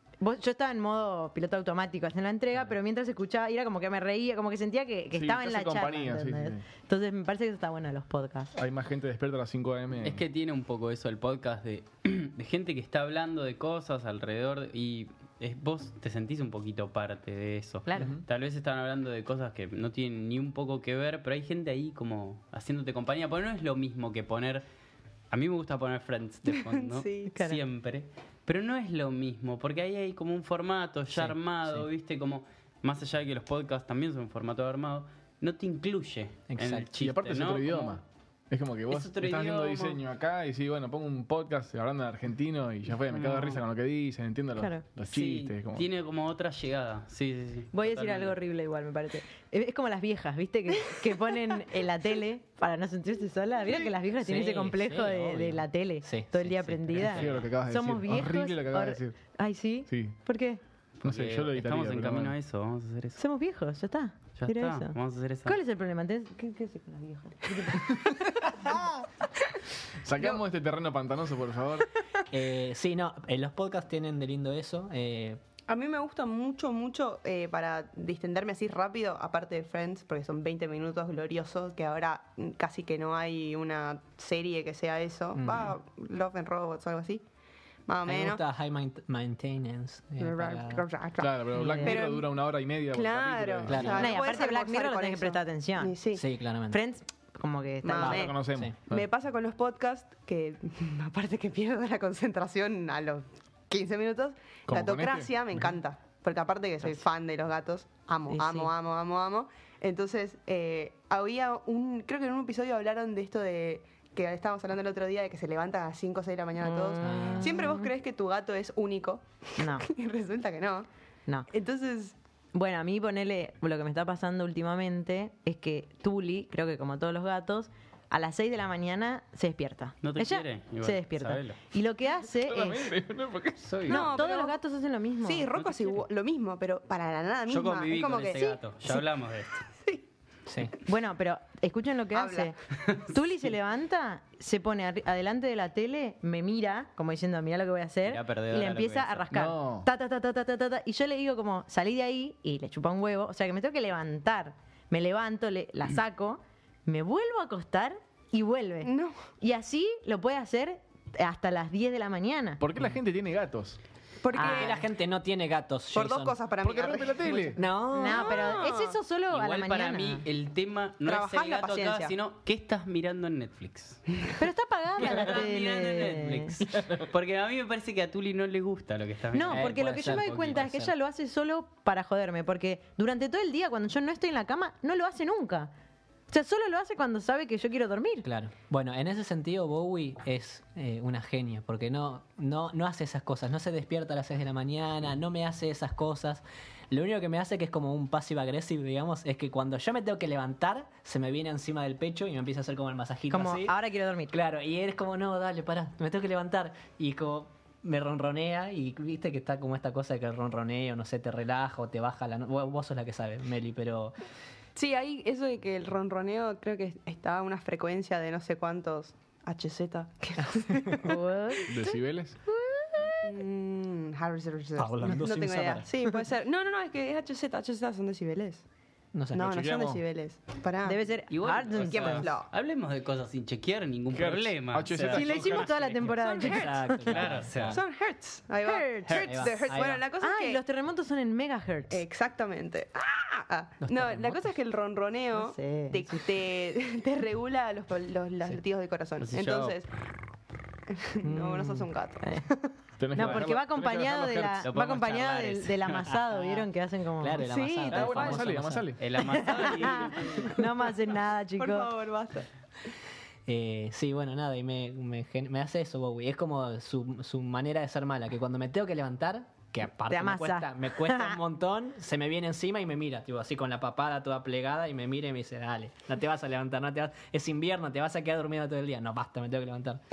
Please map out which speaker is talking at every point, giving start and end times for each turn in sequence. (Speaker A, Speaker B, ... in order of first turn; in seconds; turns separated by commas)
Speaker A: 0.2-8.5, Speaker B: 5.1-6.7, Speaker B: 8.5-10.2, Speaker C: 10.0-24.6, Speaker A: 17.9-18.2, Speaker B: 17.9-18.2, Speaker C: 25.3-38.0, Speaker D: 26.6-27.3, Speaker A: 27.3-27.6, Speaker E: 31.1-31.9, Speaker E: 36.5-36.9, Speaker B: 37.0-45.9, Speaker C: 38.9-40.0, Speaker A: 44.5-44.8, Speaker C: 45.1-48.4, Speaker A: 47.7-60.6, Speaker E: 54.2-57.5, Speaker B: 57.0-59.1, Speaker B: 59.9-60.1, Speaker B: 61.0-62.3, Speaker C: 61.0-63.2, Speaker A: 63.2-67.9, Speaker C: 64.4-65.6, Speaker B: 70.0-71.9, Speaker E: 72.3-75.4, Speaker D: 75.7-87.2, Speaker E: 85.3-85.7, Speaker D: 87.9-88.4, Speaker E: 88.0-90.8, Speaker D: 90.2-96.2, Speaker B: 91.2-94.0, Speaker E: 91.5-91.9, Speaker E: 93.7-94.2, Speaker A: 93.9-96.0, Speaker E: 96.1-96.8, Speaker A: 96.7-98.2, Speaker D: 97.8-120.9, Speaker E: 98.0-98.8, Speaker B: 98.1-99.1, Speaker B: 104.7-105.7, Speaker A: 108.3-108.7, Speaker A: 116.6-117.9, Speaker E: 117.0-117.6, Speaker A: 119.6-119.9, Speaker D: 121.5-122.2, Speaker A: 122.5-132.9, Speaker C: 130.0-131.6, Speaker B: 132.4-133.8, Speaker C: 133.6-134.2, Speaker D: 133.8-134.6, Speaker A: 133.9-135.5, Speaker D: 135.2-139.0, Speaker C: 137.5-139.6, Speaker E: 140.5-140.7, Speaker A: 140.8-142.6, Speaker D: 142.1-142.6, Speaker A: 143.1-162.6, Speaker C: 148.1-149.2, Speaker B: 149.3-149.9, Speaker D: 158.8-159.2, Speaker B: 162.6-163.8, Speaker D: 164.2-164.9, Speaker A: 164.3-164.7, Speaker E: 164.3-166.5, Speaker D: 165.9-169.0, Speaker B: 166.6-167.6, Speaker E: 167.6-168.5, Speaker A: 167.9-170.2, Speaker C: 169.3-174.0, Speaker D: 171.0-172.1, Speaker A: 174.4-176.6, Speaker C: 175.0-180.6, Speaker B: 176.7-177.0, Speaker A: 179.3-185.7, Speaker E: 179.5-180.9, Speaker A: 186.3-188.3, Speaker E: 188.2-203.7, Speaker A: 203.3-204.3, Speaker E: 204.3-214.1, Speaker D: 214.7-221.2, Speaker A: 221.0-223.4, Speaker B: 221.7-222.4, Speaker D: 223.2-228.7, Speaker E: 224.8-225.9, Speaker E: 229.1-229.6, Speaker D: 229.3-231.0, Speaker B: 229.4-230.0, Speaker A: 230.8-232.3, Speaker C: 231.3-235.7, Speaker D: 231.8-232.5, Speaker B: 234.1-236.1, Speaker A: 235.1-237.2, Speaker E: 236.0-237.8, Speaker D: 236.3-236.7, Speaker C: 237.1-237.8, Speaker D: 237.7-240.6, Speaker A: 238.6-239.3, Speaker E: 239.1-240.0, Speaker A: 240.2-242.0, Speaker D: 241.9-249.9, Speaker E: 243.8-244.5, Speaker A: 245.3-246.2, Speaker C: 249.2-249.8, Speaker D: 250.9-252.7, Speaker E: 251.2-251.8, Speaker B: 253.0-254.6, Speaker A: 253.1-258.3, Speaker C: 254.6-256.2, Speaker E: 256.3-256.7, Speaker E: 257.2-258.9, Speaker B: 257.9-259.0, Speaker D: 258.1-258.4, Speaker C: 259.0-260.6, Speaker A: 259.3-261.9, Speaker D: 260.4-260.9, Speaker D: 261.6-262.5, Speaker E: 263.4-280.0, Speaker A: 270.1-271.4